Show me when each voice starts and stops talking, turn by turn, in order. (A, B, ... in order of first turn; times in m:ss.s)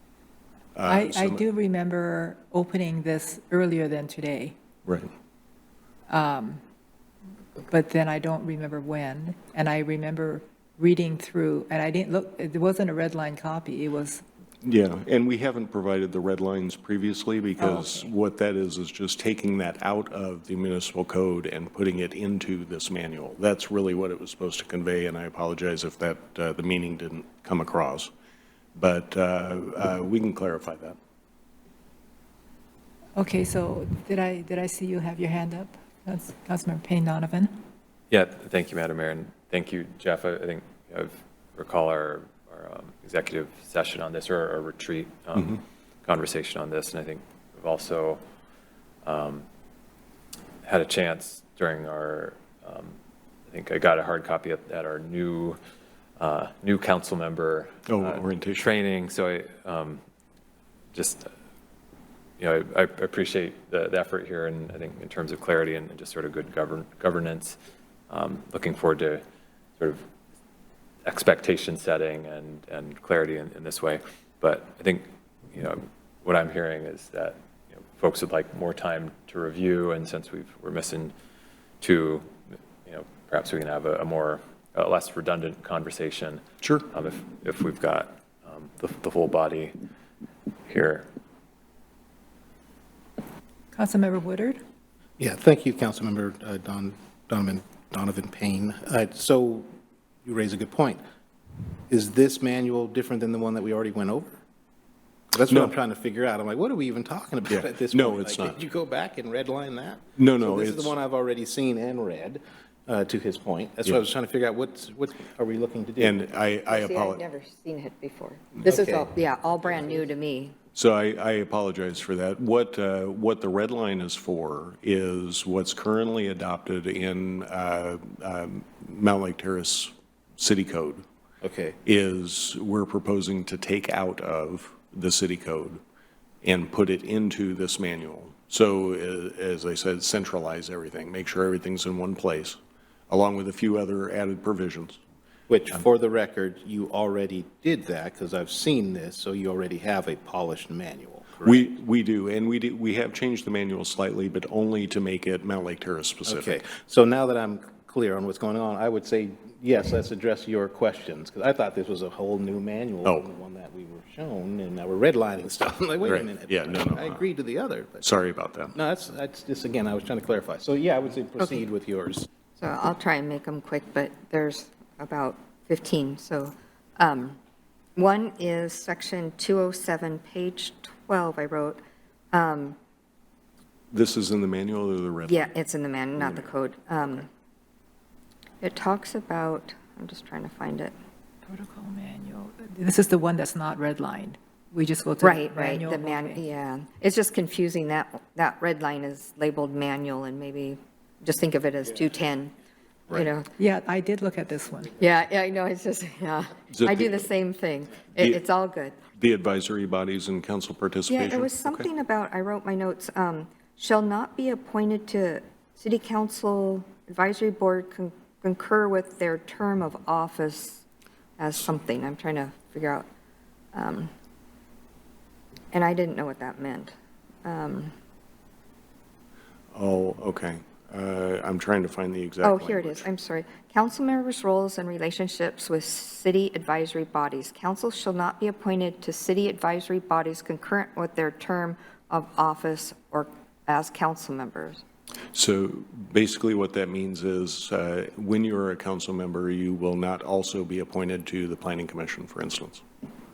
0:00.8-0:01.4 A
0:00.8-0:04.6 B
0:06.1-0:06.6 B
0:07.7-0:14.2 B
0:14.6-0:28.1 A
0:17.6-0:18.1 B
0:28.8-0:31.0 A
0:33.2-0:37.5 B
0:38.1-0:48.2 C
0:49.0-0:49.5 C
0:50.6-0:53.0 C
0:53.5-0:55.6 C
0:56.2-1:00.0 C
0:57.9-0:58.7 A
1:00.9-1:01.3 C
1:02.4-1:07.6 C
1:08.1-1:09.2 C
1:11.0-1:21.1 C
1:21.8-1:22.3 C
1:22.9-1:29.8 C
1:26.6-1:26.9 A
1:30.7-1:31.1 C
1:33.7-1:34.6 B
1:35.2-1:39.7 D
1:40.2-1:41.0 D
1:41.9-1:44.4 D
1:45.3-1:56.2 D
1:45.5-1:45.7 A
1:47.5-1:48.6 A
1:50.2-1:50.9 A
1:56.0-1:57.2 A
1:56.7-2:00.6 E
1:58.6-1:59.1 D
2:00.8-2:11.0 A
2:11.4-2:11.8 D
2:11.8-2:15.8 A
2:16.4-2:22.6 A
2:23.1-2:25.0 A
2:25.5-2:31.7 D
2:31.4-2:36.7 A
2:36.3-2:48.1 D
2:46.0-2:47.3 A
2:48.0-2:48.8 A
2:48.8-2:52.3 D
2:52.6-2:57.4 E
2:58.0-3:01.8 E
3:02.3-3:02.8 E
3:03.9-3:05.5 A
3:05.3-3:07.3 E
3:06.2-3:06.5 A
3:08.6-3:11.0 E
3:11.5-3:16.4 B
3:15.2-3:22.6 E
3:23.1-3:23.5 E
3:23.6-3:25.0 B
3:25.0-3:29.0 E
3:26.7-3:27.3 A
3:28.1-3:28.4 A
3:29.2-3:31.9 A
3:31.1-3:40.8 E
3:41.4-3:43.1 E
3:43.7-3:44.1 E
3:45.7-3:46.9 E
3:47.4-3:47.9 E
3:49.7-3:53.1 A
3:52.4-4:04.8 E
4:05.3-4:12.8 A